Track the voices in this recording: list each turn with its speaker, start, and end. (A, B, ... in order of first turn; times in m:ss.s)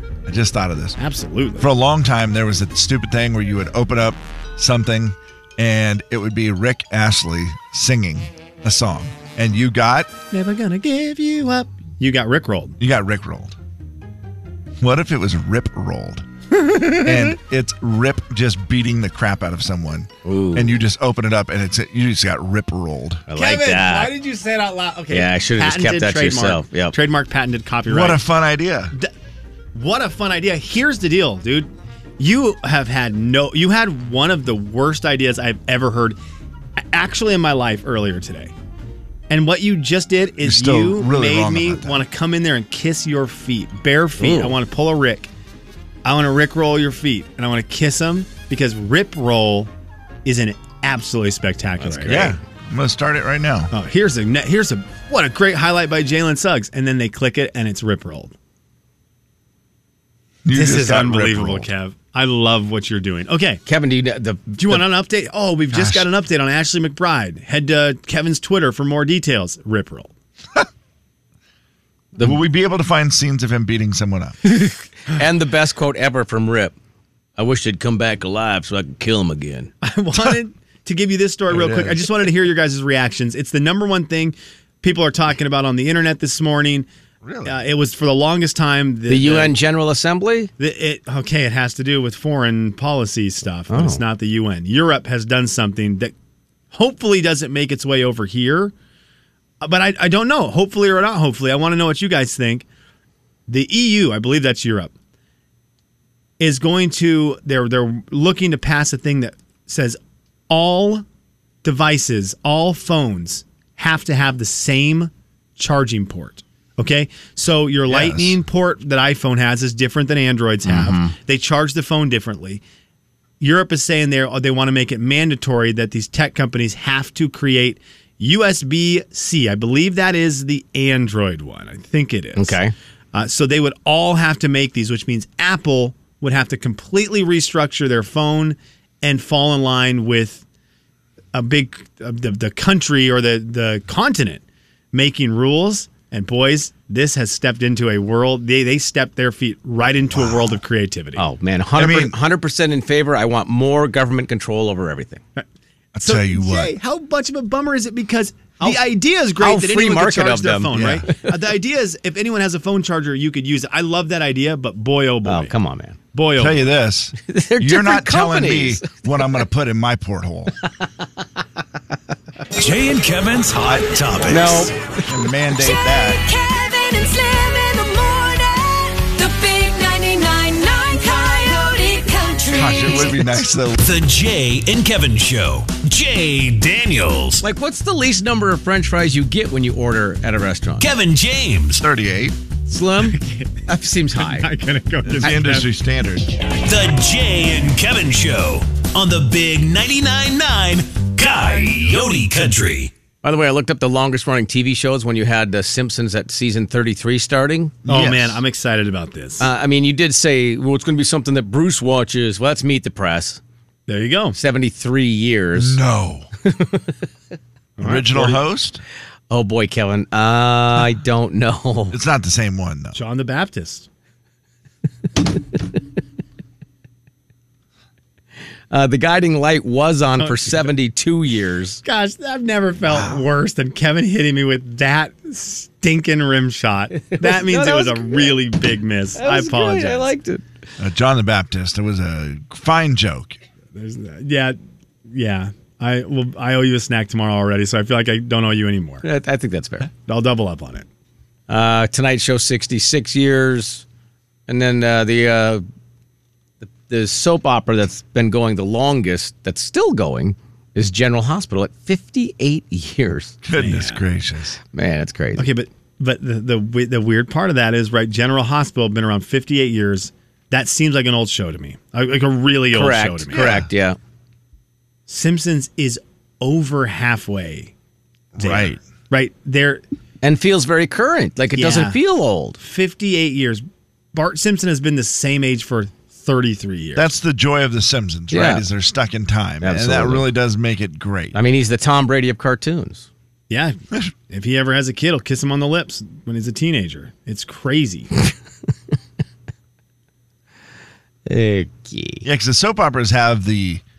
0:00.3-0:01.0 A
0:01.0-0:01.7 B
0:01.6-0:10.1 A
0:10.3-0:12.8 B
0:12.8-0:13.6 A
0:14.8-0:16.3 A
0:16.7-0:17.1 B
0:17.0-0:23.2 A
0:20.2-0:20.8 C
0:23.3-0:24.1 C
0:23.3-0:28.2 B
0:25.1-0:26.9 C
0:27.8-0:28.9 A
0:29.7-0:36.2 B
0:36.9-0:38.5 B
0:39.3-0:45.3 B
0:40.4-0:42.0 A
0:44.2-0:44.6 C
0:46.0-0:49.7 B
0:50.2-0:52.4 B
0:51.8-0:52.3 C
0:52.0-0:53.7 A
0:53.7-0:58.3 B
1:00.4-1:01.7 A
1:00.5-1:03.6 B
1:03.7-1:04.8 C
1:04.5-1:10.1 B
1:05.7-1:06.0 A
1:12.2-1:14.4 A
1:14.4-1:16.7 C
1:17.4-1:19.7 C
1:19.8-1:26.9 B
1:21.5-1:22.0 A
1:27.2-1:27.6 A
1:27.4-1:29.5 B
1:29.1-1:30.5 C
1:30.6-1:36.1 B
1:33.7-1:34.0 C
1:36.7-1:38.7 B
1:39.6-1:42.6 B
1:43.5-1:44.9 B
1:46.4-1:50.0 B
1:50.5-1:51.0 B
1:51.6-2:02.6 B
1:57.9-1:58.4 A
2:00.6-2:01.1 C
2:03.4-2:12.6 B
2:12.4-2:12.7 C
2:13.1-2:20.4 B
2:21.3-2:31.2 B
2:30.1-2:30.4 A
2:31.2-2:35.2 C
2:31.8-2:32.1 A
2:35.9-2:36.7 A
2:36.0-2:45.5 B
2:39.4-2:41.2 C
2:40.7-2:41.0 A
2:45.2-2:46.0 C
2:46.1-2:46.6 B
2:46.4-2:50.6 A
2:47.2-2:49.4 C
2:52.5-2:54.7 D
2:53.6-2:54.5 A
2:54.3-2:54.8 C
2:55.0-2:56.2 A
2:56.3-3:02.4 E
2:57.0-2:58.2 C
2:59.2-3:02.7 C
3:02.5-3:03.8 A
3:03.8-3:07.4 D
3:07.4-3:10.9 C
3:10.8-3:11.8 D
3:11.8-3:12.4 A
3:12.7-3:14.5 C
3:13.0-3:13.6 B
3:14.1-3:15.7 B
3:15.0-3:16.3 A
3:16.6-3:22.9 D
3:23.2-3:27.8 C
3:27.8-3:28.4 A
3:27.9-3:29.5 B
3:29.4-3:33.4 C
3:33.9-3:34.4 B
3:34.3-3:35.8 C
3:35.6-3:36.3 A
3:36.4-3:36.9 C
3:37.8-3:38.4 B
3:37.8-3:38.8 A
3:39.3-3:42.0 C
3:41.9-3:43.0 A
3:42.9-3:43.9 B
3:48.7-3:51.8 C
3:50.2-3:50.7 B
3:51.8-4:00.1 B
3:57.1-3:58.4 C
3:59.2-4:00.4 C
4:00.8-4:03.4 A
4:03.7-4:04.6 B
4:05.1-4:09.0 B
4:09.0-4:09.9 C
4:10.0-4:10.8 B
4:11.5-4:13.8 C
4:14.5-4:15.6 C
4:16.6-4:23.4 C
4:23.4-4:24.6 A
4:23.6-4:24.0 B
4:24.7-4:25.5 C
4:25.4-4:33.6 B
4:32.7-4:34.0 C
4:33.3-4:33.7 A
4:35.1-4:37.7 B
4:38.4-4:38.8 A
4:38.4-4:39.8 B
4:40.2-4:42.6 C
4:41.6-4:42.0 B
4:42.6-4:47.1 B
4:47.0-4:51.4 A
4:48.3-4:48.6 C
4:49.6-4:50.2 C
4:51.3-4:53.1 C
4:53.5-4:53.8 B
4:54.3-4:58.1 B
5:01.2-5:02.2 C
5:02.2-5:03.8 A